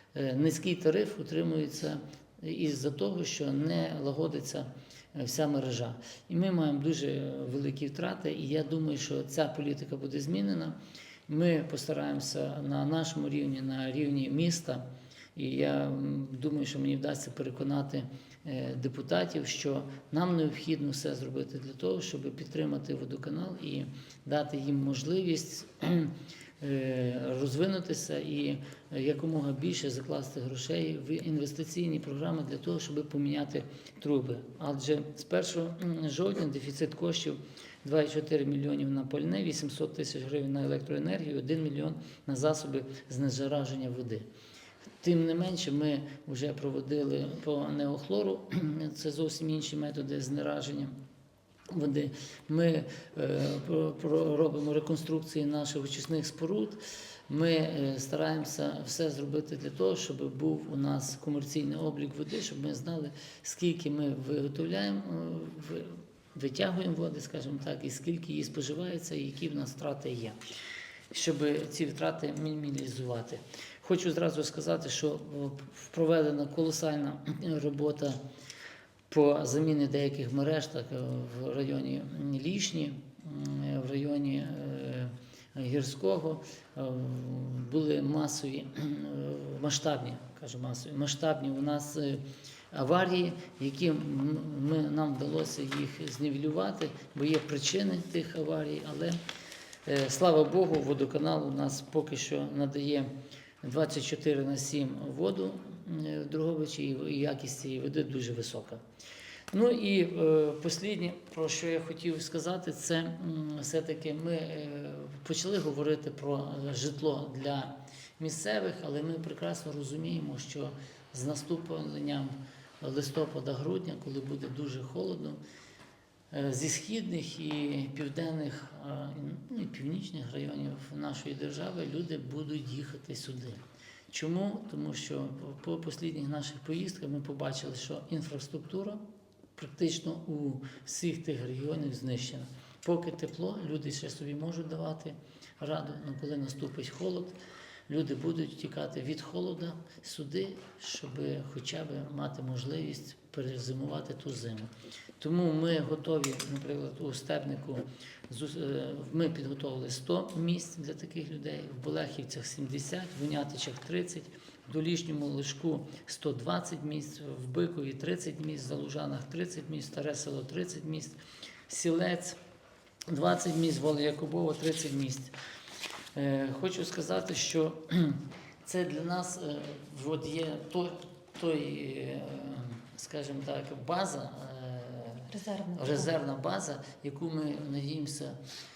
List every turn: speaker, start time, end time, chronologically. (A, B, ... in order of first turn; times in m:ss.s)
0:00.1-0:44.3 A
0:45.0-0:51.0 A
0:51.7-1:10.4 A
1:11.1-1:18.2 A
1:19.1-1:39.2 A
1:39.8-1:43.1 A
1:43.6-1:48.8 A
1:49.5-2:05.4 A
2:06.3-2:19.0 A
2:19.6-2:27.4 A
2:27.9-2:52.4 A
2:53.1-2:55.3 A
2:56.2-3:08.4 A